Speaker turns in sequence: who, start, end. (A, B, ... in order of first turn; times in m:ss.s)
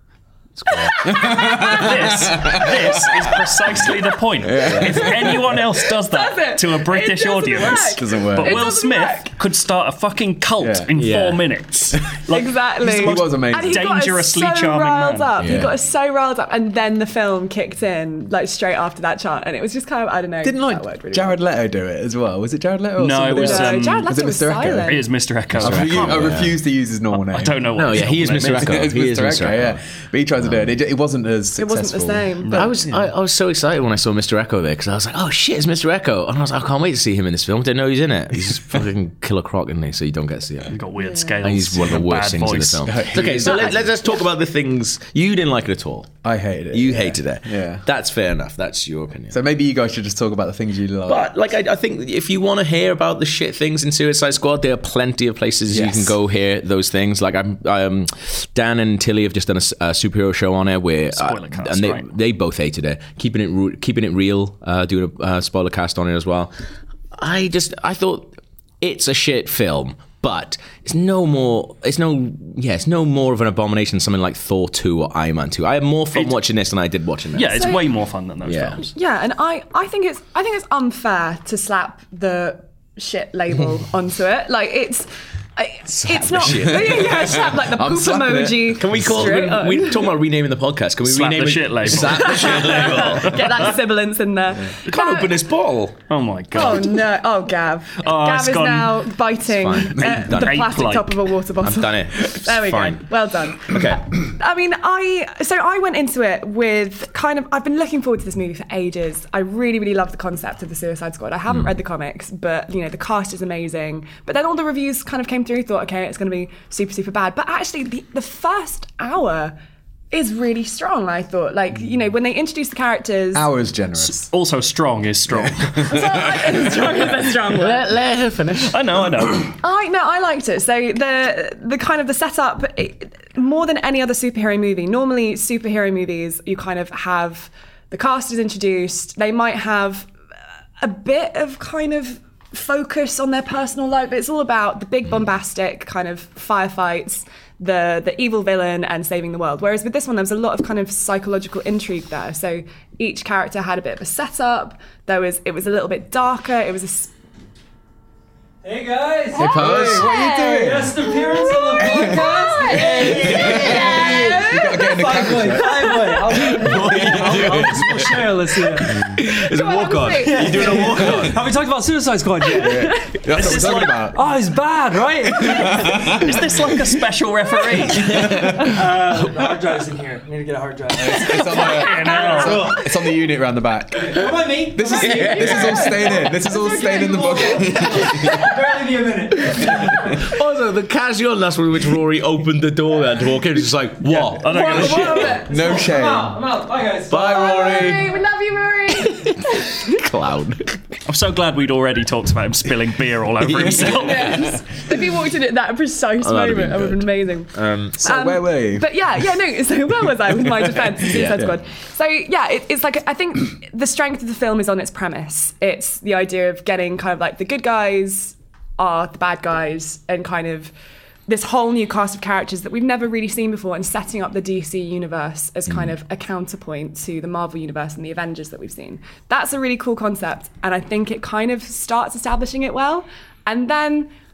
0:00.6-0:01.2 A
0:00.7-0:02.7 B
0:01.0-0:03.5 C
0:01.5-0:15.3 D
0:04.4-0:05.6 C
0:04.6-0:05.2 A
0:06.0-0:09.3 B
0:08.0-0:08.7 C
0:10.6-0:10.9 C
0:11.0-0:11.4 A
0:12.3-0:21.4 B
0:12.8-0:13.9 C
0:15.4-0:15.7 A
0:20.4-0:25.0 C
0:23.0-0:24.1 D
0:23.4-0:25.0 B
0:24.9-0:26.4 D
0:25.5-0:26.6 A
0:25.6-0:27.8 C
0:27.1-0:28.8 D
0:27.7-0:29.8 A
0:28.4-0:33.1 C
0:30.4-0:30.7 A
0:31.6-0:32.7 B
0:32.5-0:40.8 A
0:40.7-0:43.0 D
0:41.0-0:41.4 B
0:41.4-0:46.1 A
0:42.9-0:43.9 C
0:46.2-0:47.8 C
0:46.7-0:49.4 A
0:49.3-0:51.3 C
0:51.1-1:06.5 A
0:55.7-0:56.2 C
1:01.1-1:02.1 D
1:07.2-1:17.8 A
1:17.3-1:18.9 D
1:17.5-1:17.8 B
1:18.4-1:18.8 A
1:18.9-1:30.1 B
1:25.9-1:27.4 A
1:26.4-1:29.3 C
1:28.8-1:33.8 A
1:31.0-1:33.6 D
1:32.0-1:35.4 B
1:34.7-1:36.0 A
1:36.1-1:37.0 D
1:36.5-1:59.6 B
1:38.0-1:39.1 D
1:39.5-1:40.7 A
1:40.0-1:41.2 D
1:41.6-1:44.2 A
2:00.1-2:03.5 B
2:03.3-2:04.3 C
2:04.0-2:06.0 D
2:05.9-2:07.9 B
2:06.0-2:06.4 C
2:07.5-2:09.0 A
2:08.6-2:09.5 D
2:09.6-2:20.1 B
2:20.8-2:37.1 B
2:38.6-2:39.6 E
2:39.4-2:41.0 C
2:39.4-2:44.9 B
2:39.4-2:40.1 A
2:40.5-2:49.2 E
2:43.1-2:44.1 A
2:43.2-2:46.0 C
2:45.9-2:46.2 B
2:46.4-2:51.4 A
2:46.6-2:47.9 C
2:49.3-2:51.1 B
2:50.2-2:53.6 E
2:52.5-2:53.2 B
2:52.6-2:54.2 C
2:53.3-2:54.1 D
2:54.1-2:56.3 E
2:55.4-2:56.6 C
2:55.9-2:58.2 D
2:58.0-2:58.8 C
2:58.0-2:58.5 A
2:58.1-3:02.9 E
3:01.0-3:08.5 C
3:01.1-3:02.8 D
3:01.5-3:02.8 B
3:04.0-3:10.2 E
3:05.0-3:05.9 A
3:05.1-3:05.9 B
3:09.5-3:10.1 C
3:09.6-3:15.3 A
3:14.0-3:15.3 D
3:14.4-3:15.9 B
3:15.2-3:18.1 E
3:15.5-3:16.4 C
3:17.1-3:18.1 A
3:17.2-3:20.0 B
3:18.9-3:20.8 A
3:21.1-3:24.5 D
3:23.4-3:24.8 A
3:24.0-3:40.7 B
3:26.2-3:28.0 A
3:28.0-3:29.0 C
3:31.1-3:31.5 A
3:41.3-3:54.1 B
3:45.7-3:45.9 A